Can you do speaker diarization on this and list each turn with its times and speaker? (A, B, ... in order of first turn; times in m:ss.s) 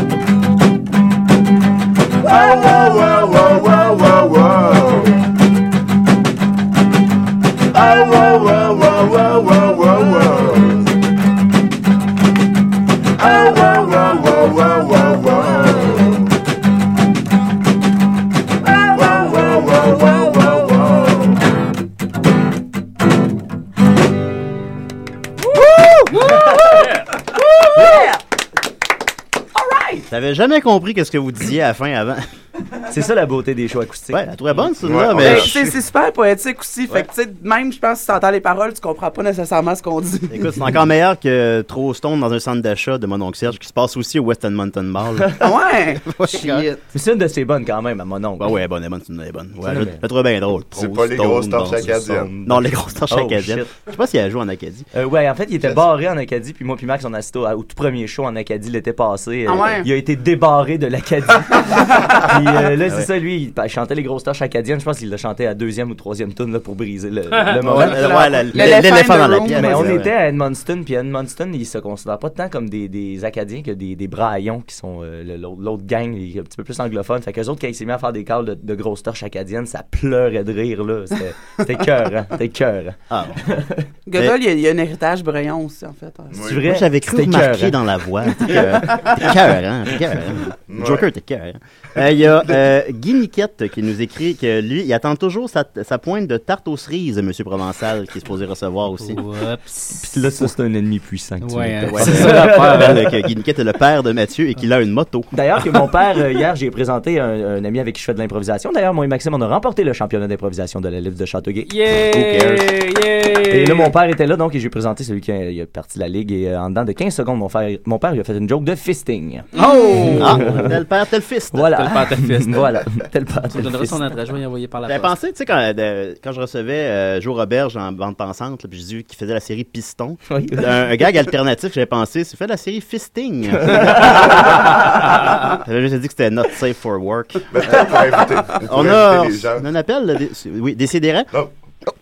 0:02.2-0:05.1 A
0:02.2-0:03.4 B
0:07.7-0:10.9 A
0:13.2-0:16.3 A
0:18.6-0:20.8 B
0:18.9-0:21.4 A
0:25.5-0:28.2 C
0:29.5-0:30.1 C
0:30.1-0:32.2 D
0:32.9-0:34.2 C
0:34.1-0:35.7 D
0:34.8-0:35.6 A
0:35.2-0:40.6 B
0:40.3-0:46.7 D
0:45.4-0:46.8 B
0:46.9-0:48.5 C
0:48.4-0:54.9 D
0:49.6-0:50.0 C
0:50.7-0:52.4 A
0:51.8-0:53.7 C
0:54.9-1:08.9 C
0:59.4-0:59.9 B
1:07.6-1:10.0 B
1:07.6-1:10.1 D
1:09.4-1:23.9 C
1:23.1-1:23.4 D
1:24.1-1:26.4 B
1:26.3-1:26.7 A
1:26.4-1:27.8 C
1:26.6-1:39.2 D
1:30.7-1:31.1 A
1:39.0-1:40.0 E
1:39.9-1:43.1 C
1:41.4-1:43.1 E
1:41.8-1:45.3 D
1:45.3-1:51.7 C
1:51.6-1:53.9 E
1:52.1-1:52.7 D
1:53.5-1:59.5 C
1:59.6-2:00.4 E
1:59.6-2:01.7 D
1:59.6-2:00.1 B
2:00.1-2:00.8 C
2:01.5-2:04.1 C
2:01.7-2:02.8 E
2:03.5-2:05.1 E
2:04.8-2:17.9 D
2:10.3-2:11.1 C
2:13.6-2:14.7 C
2:17.5-2:19.6 A
2:18.6-2:21.3 D